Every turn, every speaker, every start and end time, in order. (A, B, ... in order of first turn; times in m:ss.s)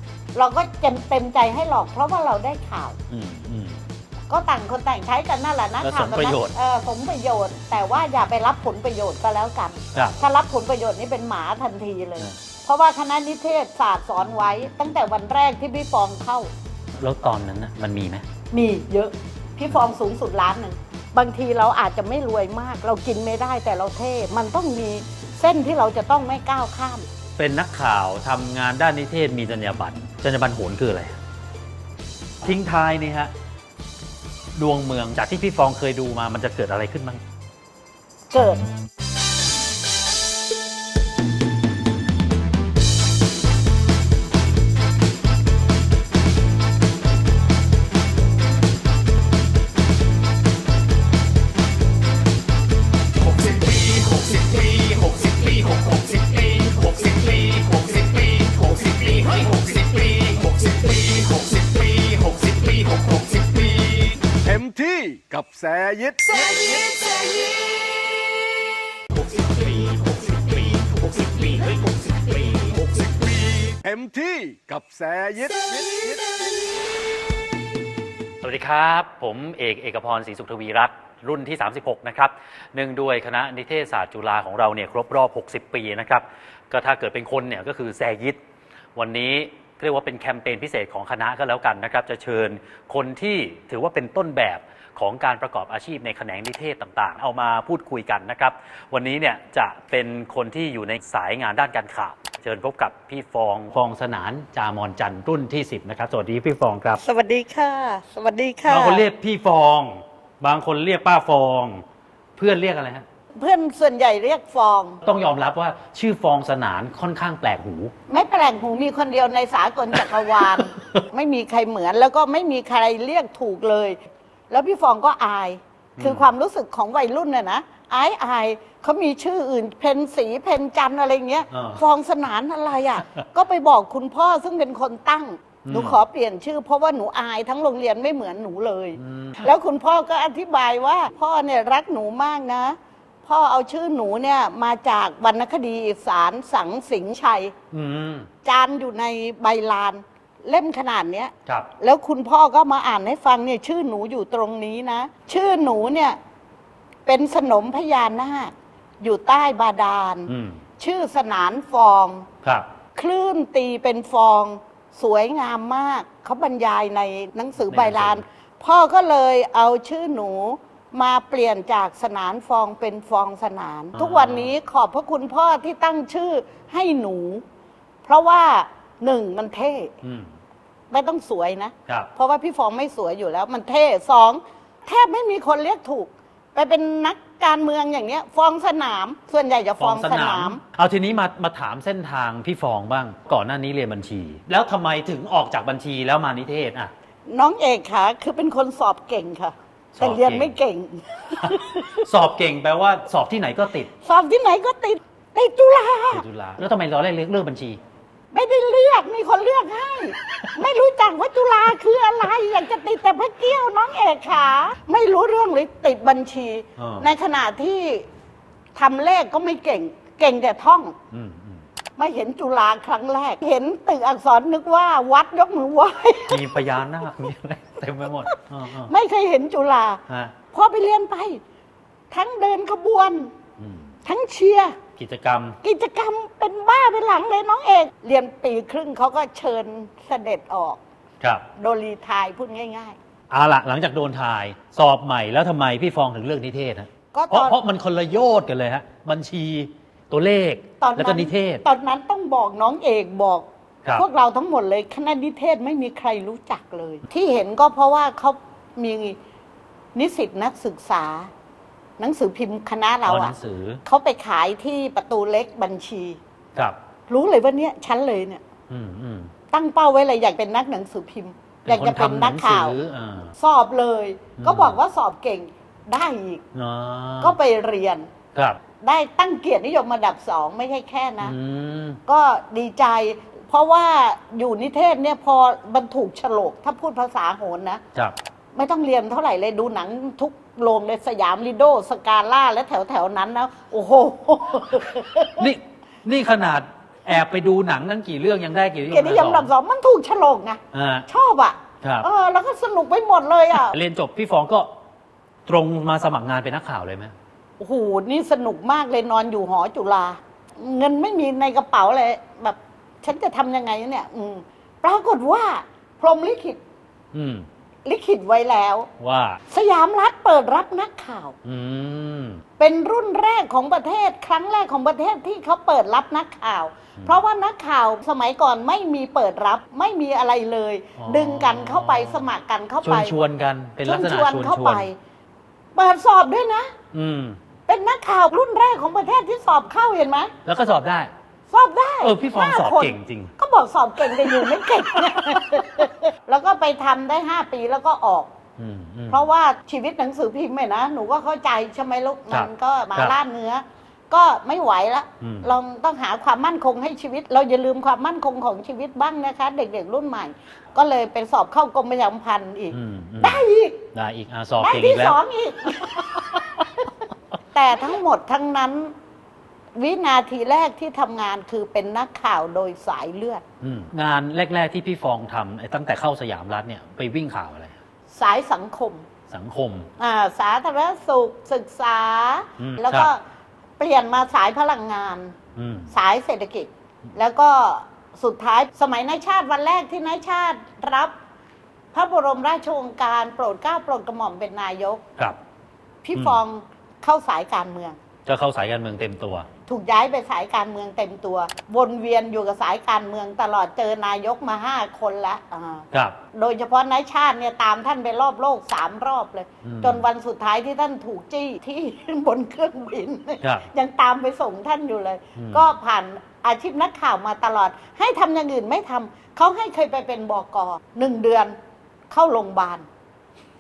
0:00.4-0:03.0 A
0:03.1-0:03.8 B
0:04.3-0:16.5 A
0:05.8-0:06.5 B
0:17.0-0:18.3 B
0:18.5-0:27.1 A
0:27.4-0:31.2 B
0:32.4-0:33.3 B
0:34.6-0:37.2 B
0:38.3-0:38.6 A
0:53.2-1:04.2 C
1:04.4-1:06.2 D
1:06.3-1:07.6 C
1:09.1-1:13.7 C
1:13.8-1:16.2 D
1:15.7-1:16.5 C
1:18.4-1:28.4 B
1:29.0-1:47.0 B
1:47.0-1:49.0 A
1:48.7-1:51.8 B
1:52.4-1:53.1 B
1:53.4-1:55.0 A
1:55.0-1:57.9 B
1:58.1-2:04.0 A
2:00.0-2:01.0 B
2:04.5-2:27.5 A
2:06.0-2:06.3 B
2:11.5-2:11.8 B
2:15.7-2:16.0 B
2:19.0-2:19.5 B
2:27.7-2:28.3 B
2:28.4-2:36.2 A
2:37.1-2:42.3 A
2:40.3-2:40.6 B
2:42.4-2:42.7 B
2:43.0-2:57.4 A
2:47.7-2:48.2 B
2:54.0-2:54.5 B
2:58.1-2:59.9 A
3:00.0-3:00.3 B
3:00.9-3:10.6 A
3:09.8-3:16.9 B
3:17.3-3:22.1 A
3:20.0-3:20.6 B
3:21.4-3:23.9 B
3:24.0-3:26.2 A
3:26.1-3:27.8 B
3:28.3-3:38.1 A
3:36.8-3:37.1 B
3:38.8-3:41.0 A
3:41.1-3:41.6 B
3:42.0-3:46.5 A
3:46.3-3:48.9 B
3:48.9-3:51.4 A
3:50.1-3:50.4 B
3:52.1-3:53.3 A
3:53.6-3:53.9 B
3:54.0-3:54.8 A
3:55.0-3:55.6 B
3:55.6-4:00.8 A
4:01.6-4:03.0 A
4:03.3-4:11.6 B
4:07.1-4:07.6 A
4:10.8-4:19.2 A
4:20.0-4:21.3 A
4:22.0-4:23.3 A
4:23.0-4:23.8 B
4:23.8-4:26.2 A
4:27.1-4:28.4 A
4:28.7-4:29.3 B
4:29.5-4:32.8 A
4:31.6-4:33.3 B
4:33.4-4:36.4 A
4:34.4-4:34.8 B
4:36.5-4:37.4 B
4:37.2-4:38.1 A
4:38.4-4:38.6 B
4:38.8-4:41.4 A
4:41.2-4:42.0 B
4:42.1-4:47.8 A
4:48.6-4:55.5 A
4:55.4-4:59.5 B
4:58.9-5:03.8 A
5:00.7-5:01.1 B
5:01.8-5:02.1 B
5:03.5-5:04.7 B
5:05.5-5:07.1 B
5:07.6-5:16.6 A
5:17.1-5:17.5 B
5:17.8-5:18.9 A
5:19.0-5:19.4 B
5:19.5-5:21.4 A
5:21.4-5:22.4 B
5:22.6-5:33.2 A
5:31.0-5:32.3 B
5:32.8-5:34.9 B
5:33.8-5:35.0 A
5:35.8-5:36.7 A
5:36.9-5:37.4 B
5:37.7-5:40.3 A
5:40.4-5:41.1 B
5:41.5-5:48.3 A
5:42.0-5:43.3 B
5:44.1-5:45.8 B
5:48.6-5:49.2 B
5:49.1-6:03.8 A
5:52.3-5:53.2 B
5:55.2-5:55.5 B
6:02.7-6:05.2 B
6:04.6-6:06.7 A
6:07.5-6:08.9 A
6:09.8-6:13.4 A
6:13.6-6:17.8 B
6:18.1-6:19.1 A
6:19.3-6:19.9 B
6:20.0-6:23.2 A
6:22.6-6:23.1 B
6:23.8-6:25.4 A
6:25.6-6:25.9 B
6:25.9-6:31.1 A
6:31.9-6:35.0 A
6:36.0-6:38.0 A
6:36.2-6:36.4 B
6:38.3-6:39.5 B
6:39.7-7:01.6 A
6:45.9-6:46.2 B
6:49.6-6:50.0 B
6:55.4-6:55.7 B
7:02.1-7:02.9 A